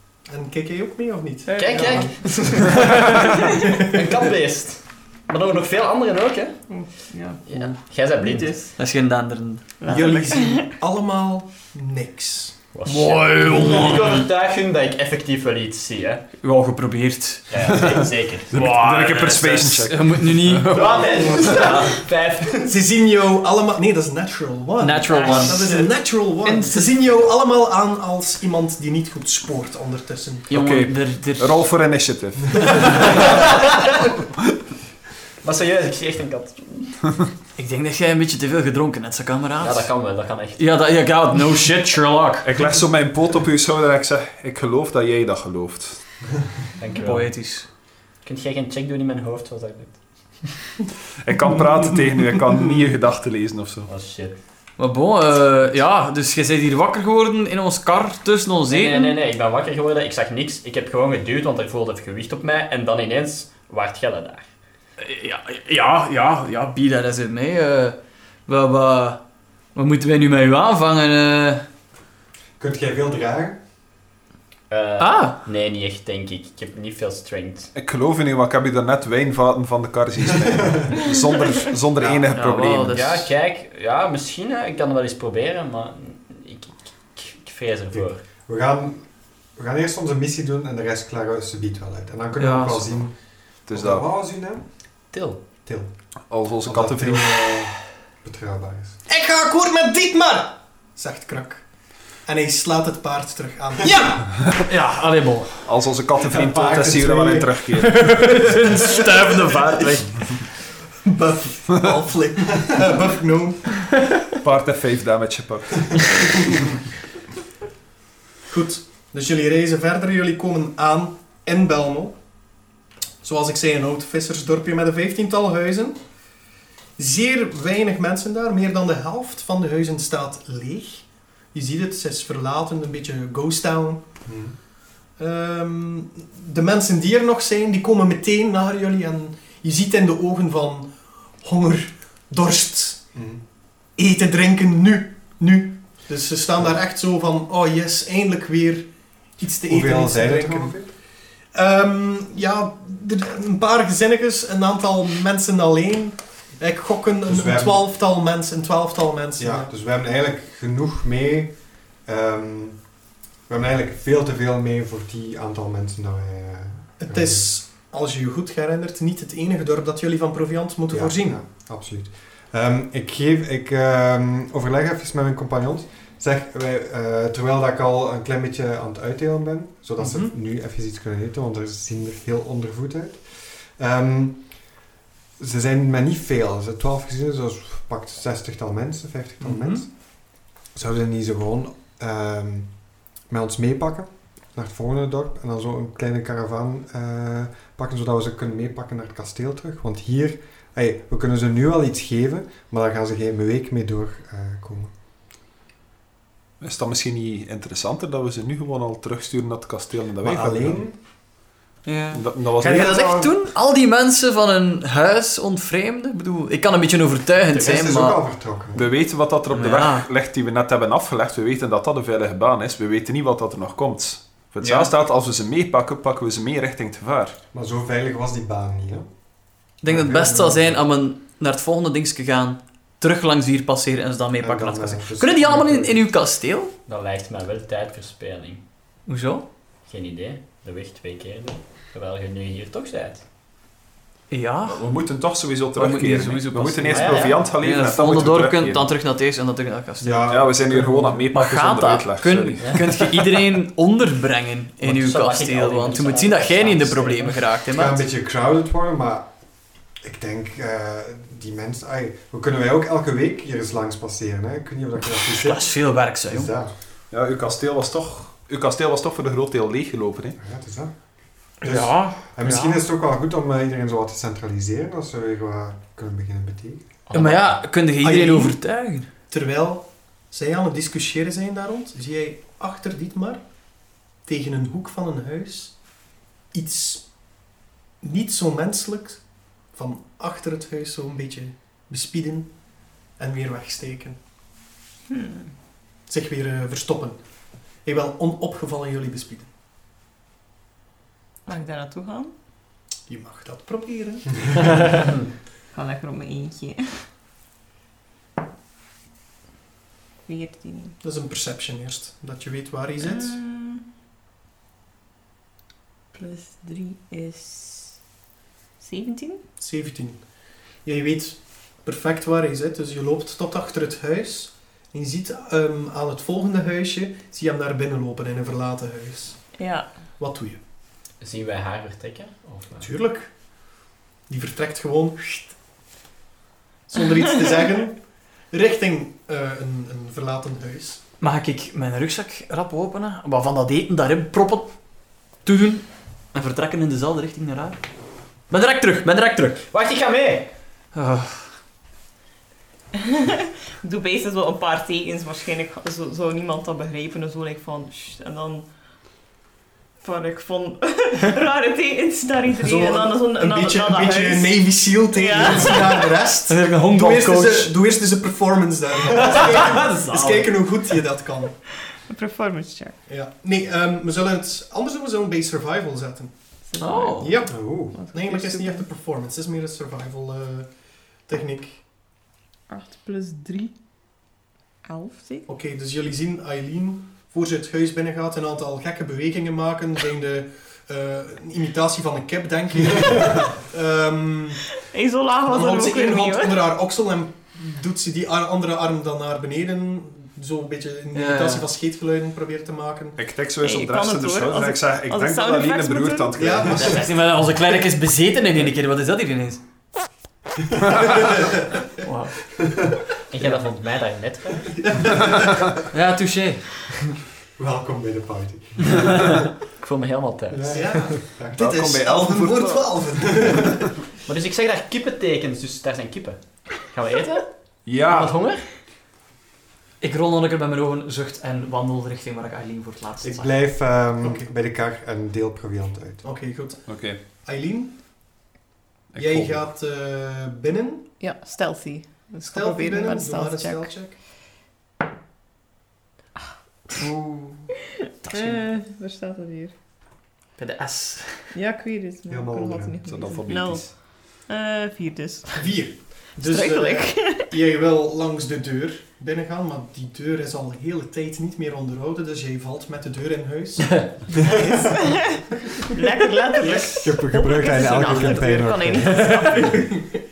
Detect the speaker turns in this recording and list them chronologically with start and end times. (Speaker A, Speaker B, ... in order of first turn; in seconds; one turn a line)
Speaker A: 0.3-2.5
Speaker B: 1.5-2.3
Speaker C: 1.5-6.5
Speaker A: 3.5-4.1
Speaker B: 6.7-8.7
Speaker C: 7.5-8.6
Speaker D: 8.8-10.2
Speaker B: 9.8-10.7
Speaker A: 9.9-12.6
Speaker C: 12.7-16.2
Speaker D: 12.8-14.2
Speaker D: 16.4-17.9
Speaker C: 17.5-18.8
Speaker E: 18.5-21.0
Speaker D: 18.5-21.9
Speaker C: 19.3-19.6
Speaker C: 20.7-22.8
Speaker A: 22.6-30.5
Speaker D: 24.8-25.7
Speaker C: 25.1-26.8
Speaker D: 30.5-31.5
Speaker E: 30.5-33.2
Speaker C: 33.2-33.9
Speaker C: 35.4-37.0
Speaker D: 37.6-42.5
Speaker C: 39.6-40.8
Speaker E: 42.4-46.0
Speaker C: 46.8-47.4
Speaker D: 47.0-47.7
Speaker C: 48.2-50.4
Speaker E: 51.2-53.9
Speaker C: 53.9-54.4
Speaker D: 54.8-59.2
Speaker C: 58.7-64.5
Speaker D: 65.0-69.2
Speaker D: 69.7-71.6
Speaker F: 72.6-73.6
Speaker C: 74.7-77.7
Speaker D: 75.0-75.4
Speaker E: 77.7-83.0
Speaker F: 80.4-81.0
Speaker F: 82.0-82.2
Speaker D: 82.3-83.3
Speaker C: 82.9-88.2
Speaker F: 87.9-94.6
Speaker D: 92.4-93.0
Speaker E: 93.7-94.0
Speaker C: 95.1-95.4
Speaker F: 95.6-95.9
Speaker E: 96.3-97.7
Speaker F: 96.6-99.0
Speaker A: 99.1-101.7
Speaker A: 102.2-104.4
Speaker D: 104.7-105.7
Speaker E: 105.6-108.5
Speaker A: 106.3-107.4
Speaker D: 107.8-110.2
Speaker A: 108.6-110.5
Speaker A: 111.0-114.0
Speaker E: 114.4-116.6
Speaker A: 118.5-122.2
Speaker A: 123.2-126.0
Speaker A: 127.0-134.1
Speaker F: 134.2-134.5
Speaker A: 135.2-140.9
Speaker A: 141.4-143.0
Speaker F: 143.1-143.4
Speaker A: 144.0-150.9
Speaker F: 149.6-150.9
Speaker A: 151.5-159.7
Speaker F: 157.3-157.8
Speaker F: 159.4-162.9
Speaker F: 163.5-167.4
Speaker A: 167.0-171.4
Speaker F: 170.9-184.7
Speaker A: 180.0-180.3
Speaker F: 185.4-204.9
Speaker D: 189.4-189.8
Speaker E: 206.6-210.8
Speaker F: 210.2-211.0
Speaker D: 211.8-218.2
Speaker E: 212.1-213.2
Speaker F: 212.7-213.3
Speaker F: 217.5-218.9
Speaker E: 218.7-227.4
Speaker D: 219.5-220.1
Speaker C: 224.6-224.9
Speaker F: 227.5-229.1
Speaker D: 229.8-236.7
Speaker F: 229.8-230.8
Speaker F: 234.4-236.1
Speaker C: 236.9-238.6
Speaker D: 239.1-239.4
Speaker C: 239.8-243.2
Speaker D: 244.3-244.8
Speaker E: 244.7-248.9
Speaker D: 245.7-250.3
Speaker C: 246.9-247.5
Speaker F: 250.0-251.3
Speaker E: 250.3-252.8
Speaker D: 251.3-258.0
Speaker C: 252.6-253.0
Speaker C: 254.8-257.5
Speaker F: 257.7-259.3
Speaker F: 260.0-266.7
Speaker D: 265.3-266.5
Speaker E: 267.1-270.4
Speaker F: 270.4-270.9
Speaker D: 271.6-272.8
Speaker F: 271.6-277.0
Speaker D: 277.1-279.1
Speaker A: 278.0-278.6
Speaker A: 279.3-283.4
Speaker A: 284.2-285.8
Speaker A: 286.5-287.1
Speaker A: 288.0-289.2
Speaker A: 289.7-292.5
Speaker A: 293.2-294.2
Speaker B: 295.1-295.5
Speaker A: 296.1-297.2
Speaker A: 297.8-299.5
Speaker B: 301.5-302.3
Speaker A: 303.1-305.0
Speaker B: 305.7-307.0
Speaker B: 310.3-311.0
Speaker A: 311.0-313.4
Speaker B: 313.0-313.8
Speaker B: 316.1-318.0
Speaker B: 318.8-319.4
Speaker A: 319.6-320.2
Speaker A: 320.8-329.6
Speaker B: 329.6-329.9
Speaker A: 330.2-330.6
Speaker C: 331.2-332.9
Speaker A: 332.8-333.3
Speaker A: 334.3-335.5
Speaker A: 336.9-341.0
Speaker D: 341.2-344.8
Speaker D: 345.4-347.8
Speaker D: 348.5-349.6
Speaker C: 349.7-350.5
Speaker D: 350.9-351.5
Speaker B: 352.9-358.7
Speaker B: 360.0-366.2
Speaker A: 362.6-371.6
Speaker D: 366.5-367.7
Speaker D: 369.1-370.5
Speaker B: 372.1-372.9
Speaker A: 373.1-376.3
Speaker B: 376.7-378.8
Speaker D: 376.8-377.3
Speaker A: 377.2-380.7
Speaker F: 377.5-378.0
Speaker A: 381.3-381.8
Speaker B: 382.7-383.7
Speaker B: 384.8-385.5
Speaker A: 385.5-394.7
Speaker B: 394.8-396.7
Speaker A: 395.4-403.2
Speaker D: 401.1-401.6
Speaker E: 403.2-407.0
Speaker B: 403.6-406.4
Speaker A: 406.4-407.1
Speaker D: 406.8-409.6
Speaker D: 412.0-412.4
Speaker C: 413.3-414.7
Speaker A: 414.7-415.6
Speaker D: 415.9-416.9
Speaker F: 417.6-419.1
Speaker C: 419.8-420.6
Speaker F: 420.5-421.7
Speaker A: 420.7-423.9
Speaker E: 421.6-423.0
Speaker C: 424.3-428.7
Speaker E: 427.8-428.4
Speaker D: 430.0-433.5
Speaker F: 433.2-436.2
Speaker A: 434.2-434.5
Speaker A: 436.2-437.9
Speaker E: 436.9-437.2
Speaker E: 439.1-439.7
Speaker A: 439.2-441.1
Speaker B: 441.2-444.0
Speaker A: 442.5-444.2
Speaker D: 447.0-447.7
Speaker B: 448.2-449.7
Speaker D: 448.2-448.6
Speaker D: 450.6-451.5
Speaker B: 451.5-455.8
Speaker F: 452.3-453.0
Speaker E: 453.0-454.0
Speaker A: 455.6-464.9
Speaker B: 456.4-457.5
Speaker F: 464.4-464.8
Speaker B: 464.8-469.8
Speaker A: 466.6-466.9
Speaker F: 467.0-469.7
Speaker A: 469.4-470.2